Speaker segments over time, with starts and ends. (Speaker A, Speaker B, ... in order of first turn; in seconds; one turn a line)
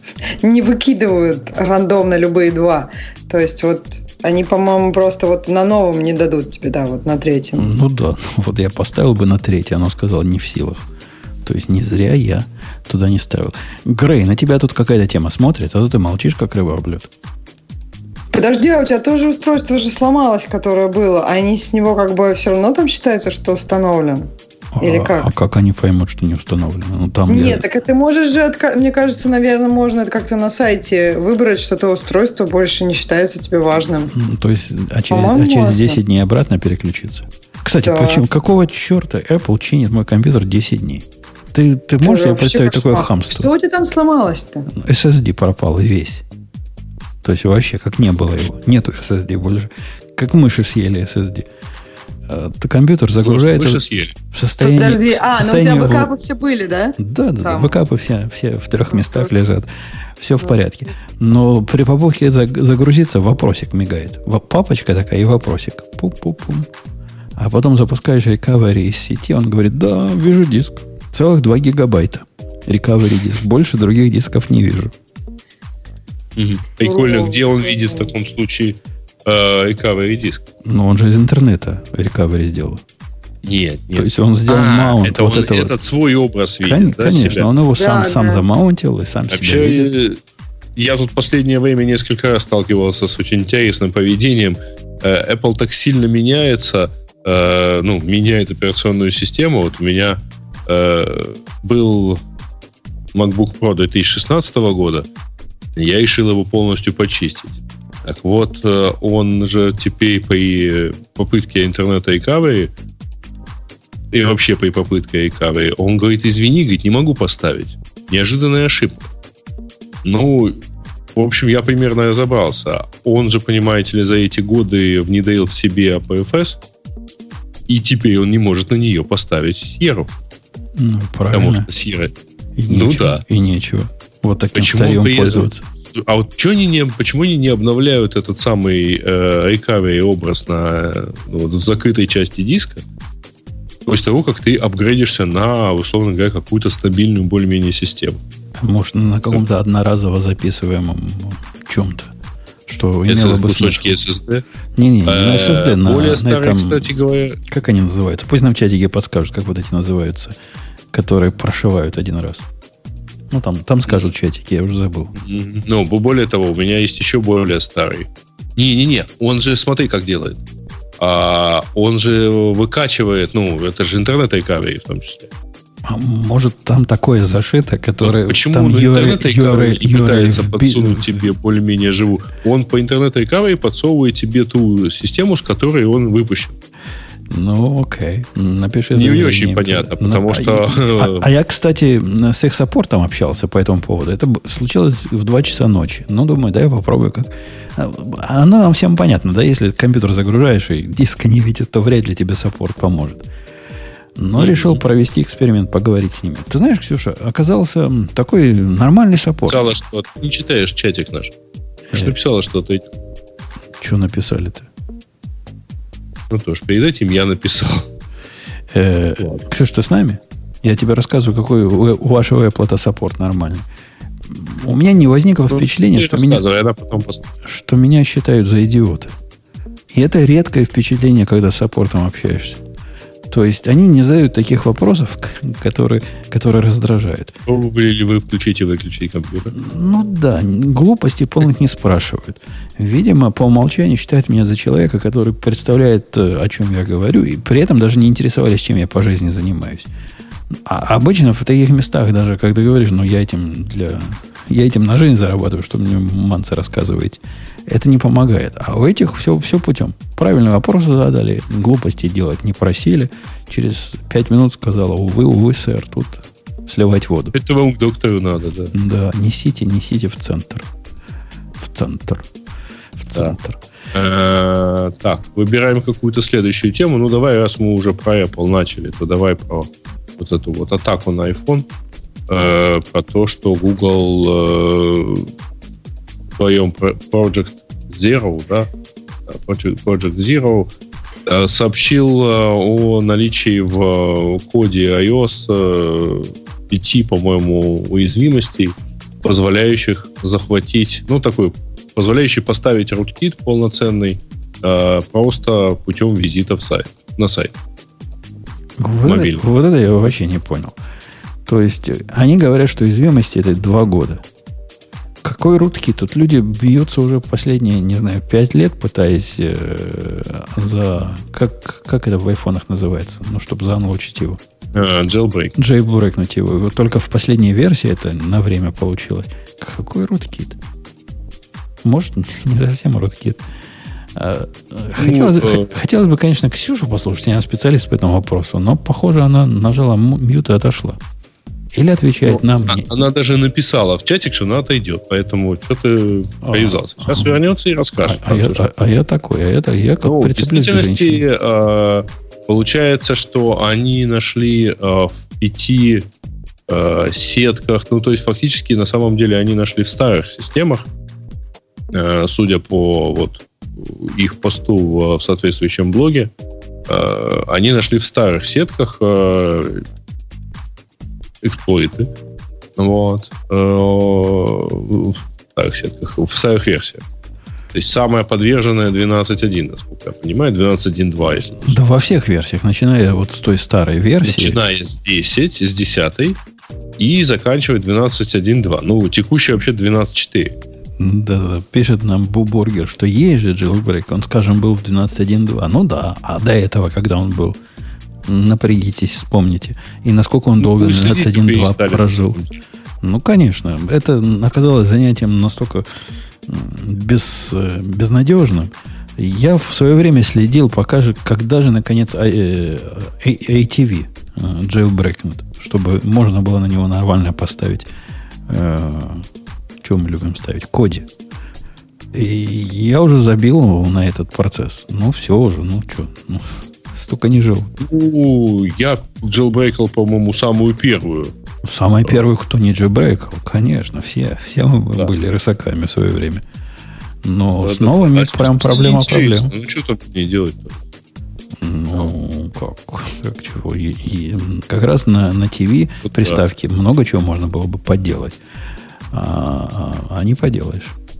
Speaker A: 0.4-7.7
Speaker B: 7.6-10.9
Speaker B: 11.4-17.1
Speaker A: 18.3-24.3
Speaker B: 24.7-27.7
Speaker A: 24.8-25.3
Speaker A: 27.3-34.1
Speaker B: 34.1-43.5
Speaker A: 35.1-36.0
Speaker A: 37.8-38.2
Speaker A: 42.0-44.7
Speaker B: 44.7-46.2
Speaker B: 47.2-51.5
Speaker B: 52.3-56.1
Speaker C: 53.2-54.2
Speaker A: 54.6-57.8
Speaker B: 57.0-66.7
Speaker B: 67.4-74.9
Speaker C: 76.4-80.4
Speaker A: 76.8-78.1
Speaker B: 80.7-82.8
Speaker C: 83.4-87.5
Speaker B: 84.0-85.7
Speaker B: 86.6-89.9
Speaker A: 87.8-88.4
Speaker C: 89.3-90.2
Speaker C: 90.8-102.2
Speaker C: 103.1-105.1
Speaker C: 105.8-112.7
Speaker C: 114.1-119.1
Speaker C: 120.0-120.6
Speaker C: 121.2-126.6
Speaker C: 127.7-130.1
Speaker B: 130.8-131.7
Speaker C: 131.3-132.1
Speaker B: 132.6-135.7
Speaker C: 132.7-133.2
Speaker C: 134.6-142.8
Speaker C: 143.9-148.2
Speaker B: 148.6-152.1
Speaker B: 152.7-154.0
Speaker C: 153.1-154.4
Speaker B: 154.8-156.9
Speaker C: 155.1-157.4
Speaker B: 157.5-160.3
Speaker B: 160.9-162.5
Speaker B: 163.3-165.1
Speaker C: 165.2-170.4
Speaker C: 171.0-175.3
Speaker B: 175.9-181.2
Speaker C: 178.0-186.6
Speaker B: 187.3-203.3
Speaker C: 188.9-191.2
Speaker B: 204.2-209.6
Speaker C: 204.4-204.8
Speaker C: 209.5-211.3
Speaker C: 211.9-212.8
Speaker B: 213.8-214.7
Speaker C: 216.3-217.8
Speaker B: 218.7-223.6
Speaker B: 224.3-226.4
Speaker C: 225.5-227.3
Speaker B: 227.4-229.1
Speaker B: 229.9-232.6
Speaker B: 233.3-237.3
Speaker C: 237.5-239.5
Speaker B: 239.5-249.9
Speaker B: 250.7-267.4
Speaker C: 267.3-268.7
Speaker B: 268.7-270.7
Speaker B: 271.6-272.3
Speaker B: 273.0-273.6
Speaker C: 273.9-281.7
Speaker C: 282.3-285.3
Speaker C: 286.4-288.7
Speaker C: 289.3-290.7
Speaker C: 291.3-307.5
Speaker B: 308.8-310.8
Speaker C: 309.1-309.4
Speaker B: 311.5-314.2
Speaker B: 315.2-324.4
Speaker C: 324.7-325.5
Speaker B: 325.6-330.6
Speaker B: 331.8-333.4
Speaker B: 334.1-341.0
Speaker C: 335.0-335.8
Speaker B: 341.7-342.9
Speaker C: 342.3-348.7
Speaker B: 346.4-347.4
Speaker B: 348.0-351.2
Speaker C: 350.0-356.1
Speaker C: 356.7-360.9
Speaker C: 361.9-366.3
Speaker C: 366.9-369.8
Speaker C: 371.4-372.1
Speaker C: 372.8-377.0
Speaker C: 377.7-381.8
Speaker B: 381.7-384.6
Speaker C: 384.2-386.4
Speaker C: 387.0-390.6
Speaker B: 391.0-397.6
Speaker B: 398.3-402.4
Speaker C: 400.6-402.5
Speaker B: 403.0-405.9
Speaker B: 406.5-417.9
Speaker B: 418.5-419.3
Speaker B: 419.8-421.1
Speaker B: 422.1-427.7
Speaker C: 427.8-431.3
Speaker B: 431.6-436.4
Speaker B: 437.2-439.5
Speaker C: 437.6-440.8
Speaker B: 441.6-448.4
Speaker C: 446.1-446.4
Speaker B: 449.1-450.9